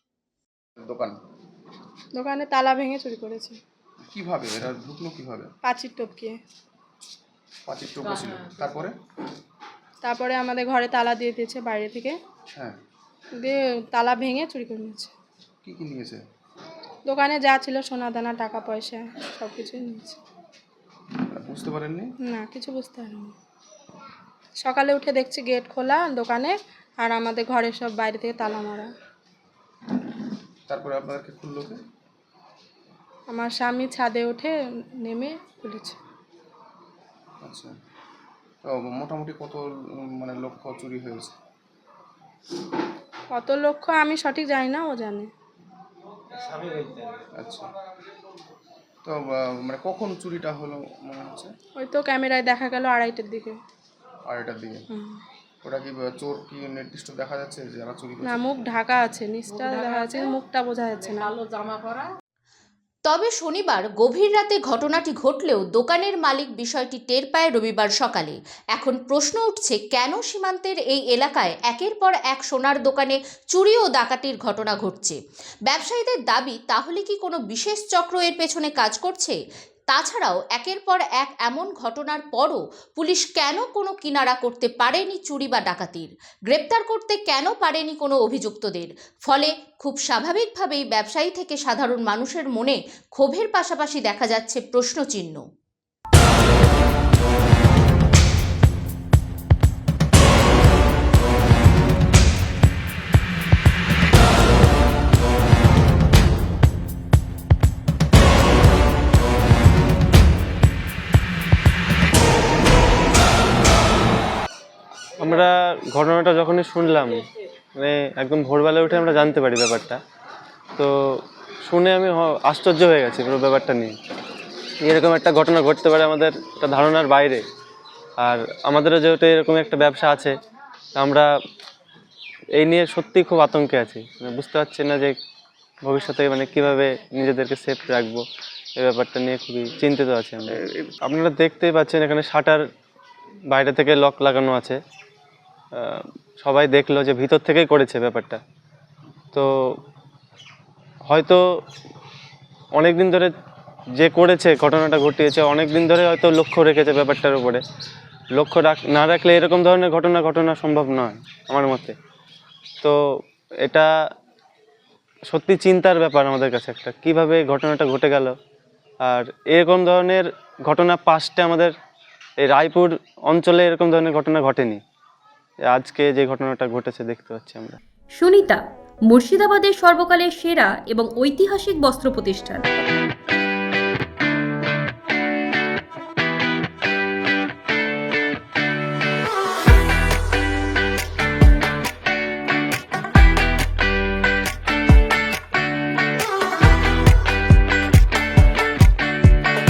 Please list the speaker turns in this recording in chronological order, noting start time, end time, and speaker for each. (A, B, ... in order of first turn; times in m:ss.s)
0:00.8-0:01.2 A
0:02.1-0:03.6 B
0:04.1-0:05.5 A
0:05.6-0:06.4 B
0:07.6-0:09.0 A
0:10.0-0:12.2 B
0:13.4-0:15.1 B
0:15.6-0:16.2 A
0:17.1-0:20.2 B
0:21.2-0:22.1 A
0:22.2-0:23.3 B
0:24.6-0:28.9 B
0:30.7-0:31.8 A
0:33.3-0:36.0 B
0:37.4-0:37.7 A
0:38.6-0:41.4 A
0:43.3-0:45.3 B
0:46.4-0:47.2 C
0:47.3-0:47.7 A
0:49.0-0:51.5 A
0:51.8-0:53.6 B
0:54.3-0:54.8 A
0:54.9-0:55.2 B
0:55.6-0:58.4 A
0:58.2-1:01.3 B
1:03.1-1:19.4 D
1:19.9-1:35.4 D
1:55.2-2:00.0 C
2:00.8-2:04.0 C
2:04.8-2:07.4 C
2:08.2-2:10.4 C
2:10.9-2:11.3 C
2:12.6-2:15.2 C
2:15.8-2:18.2 C
2:18.8-2:22.6 C
2:23.5-2:24.8 C
2:25.7-2:28.4 C
2:29.3-2:29.8 C
2:31.1-2:31.6 C
2:32.7-2:33.3 C
2:34.0-2:37.6 C
2:38.3-2:42.0 C
2:42.8-2:43.9 C
2:45.3-2:48.4 C
2:49.0-2:51.7 C
2:52.4-2:54.8 C
2:55.6-2:57.8 C
2:58.1-3:02.6 E